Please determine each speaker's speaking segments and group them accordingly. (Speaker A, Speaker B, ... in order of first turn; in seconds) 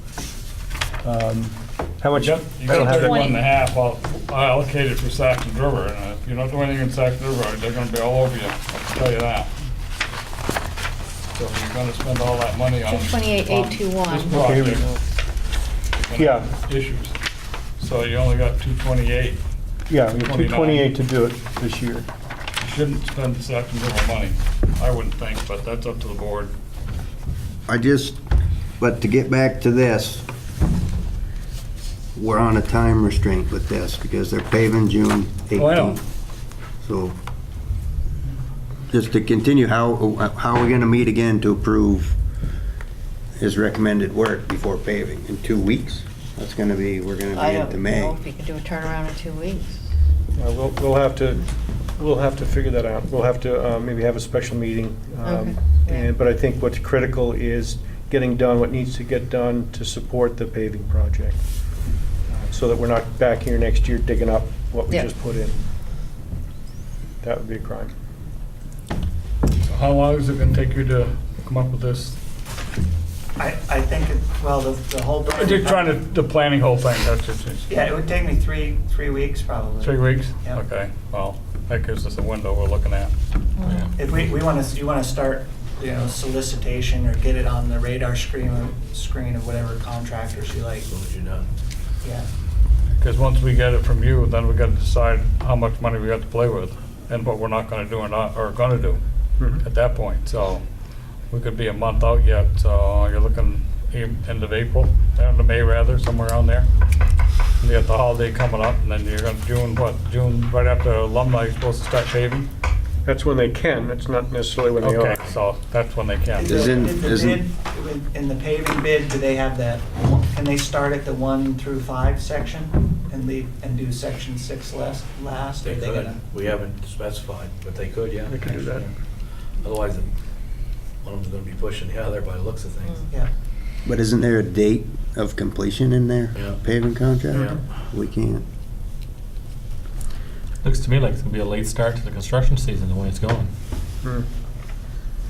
Speaker A: 1.0-3.3, 14.3-14.9, 16.1-16.5, 19.9-22.1, 50.4-61.4, 62.3-65.6, 67.2-67.9, 113.0-115.3, 128.3-128.9
Speaker B: 2.1-9.5, 11.3-14.8, 16.0-17.1, 17.8-19.4, 20.1-20.9, 22.6-26.5, 35.5-36.0, 69.6-72.2, 75.2-77.8, 79.8-83.1, 93.0-99.0, 99.6-100.6, 101.3-106.7, 107.6-112.5, 114.8-116.6
Speaker C: 2.7-3.4, 12.8-14.5, 47.3-49.8, 55.2-56.1
Speaker D: 27.7-28.2, 28.8-30.2, 32.1-36.0, 36.8-37.1, 38.9-42.2, 43.4-48.1, 116.4-117.4, 133.8-138.4
Speaker E: 73.4-76.0, 77.7-80.6, 84.0-90.9, 116.4-126.2
Speaker F: 83.6-83.9, 140.6-143.5
Speaker G: 90.9-91.5, 125.6-128.9, 129.5-130.1, 131.0-133.1, 136.3-136.6, 137.3-137.6